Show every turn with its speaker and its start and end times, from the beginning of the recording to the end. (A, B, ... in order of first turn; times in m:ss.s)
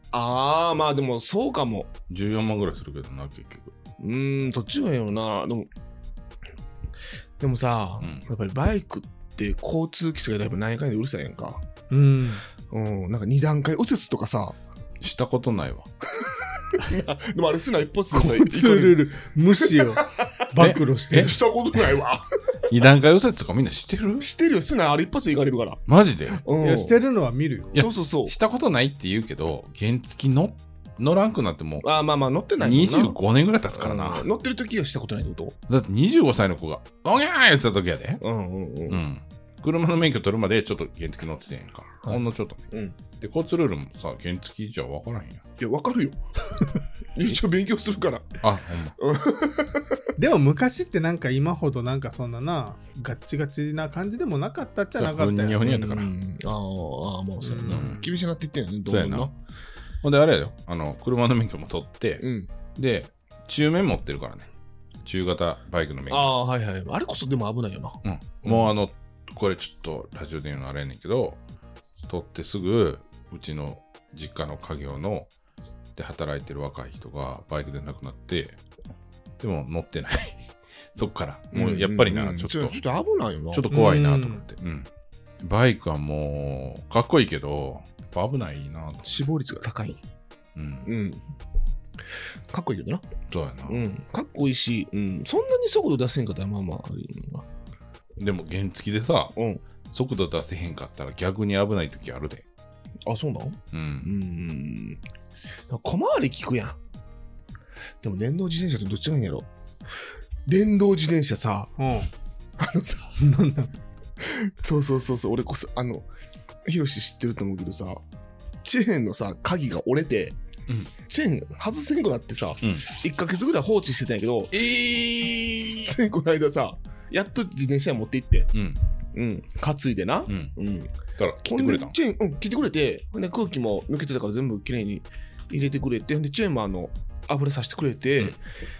0:00.1-0:01.9 A
0:02.1-0:03.7 B
0:04.0-0:05.7 A
0:07.4-0:11.6 A
0:08.0-0:08.2 B
0:11.9-0:12.4 C
0:12.7-0:14.6 A
0:15.0-0:15.9 B
0:16.2-0:19.1 A
0:18.1-0:21.3 C
0:19.6-0:22.6 A
0:20.6-0:21.3 B
0:22.7-0:24.3 B
0:24.2-0:25.8 A
0:25.9-0:26.4 B
0:26.4-0:27.0 A
0:26.6-0:27.8 C
0:27.7-0:28.3 A
0:27.7-0:31.9 B
0:31.8-0:33.2 A
0:32.6-0:34.3 B
0:33.7-0:35.6 A
0:35.7-0:38.2 B
0:38.2-0:39.0 A
0:38.9-0:42.7 B
0:42.0-0:43.0 A
0:43.2-0:45.4 B
0:45.6-0:46.2 A
0:47.1-0:48.4 A
0:48.4-0:48.9 B
0:49.0-0:50.0 A
0:50.2-0:55.6 C
0:55.0-0:56.1 B
0:55.6-0:59.3 A
0:57.4-0:58.1 C
0:57.7-0:58.1 B
0:58.9-0:59.3 B
1:00.0-1:02.2 B
1:02.2-1:02.5 A
1:02.8-1:04.5 B
1:05.0-1:06.3 B
1:06.1-1:08.7 A
1:08.0-1:11.4 B
1:12.1-1:15.3 B
1:16.0-1:18.6 B
1:19.4-1:22.8 B
1:21.5-1:23.7 A
1:23.5-1:24.9 B
1:23.7-1:24.4 C
1:25.4-1:29.1 B
1:29.0-1:30.0 A
1:30.6-1:30.9 B
1:30.8-1:31.2 A
1:32.5-1:33.0 A
1:33.3-1:33.9 B
1:33.7-1:37.5 A
1:38.2-1:39.3 B
1:39.3-1:39.6 A
1:39.9-1:42.4 B
1:43.0-1:45.0 A
1:43.7-1:44.1 B
1:45.7-1:46.8 A
1:48.0-1:49.5 A
1:50.4-1:51.7 A
1:51.8-1:52.1 C
1:52.6-1:53.2 A
1:53.2-1:53.7 C
1:54.2-1:56.1 A
1:56.6-1:58.0 A
1:58.6-2:00.4 A
2:00.7-2:00.9 B
2:01.0-2:04.6 A
2:04.5-2:05.9 B
2:05.8-2:08.5 A
2:08.5-2:08.8 B
2:09.1-2:10.9 A
2:10.3-2:10.5 B
2:11.2-2:11.9 B
2:11.4-2:18.4 A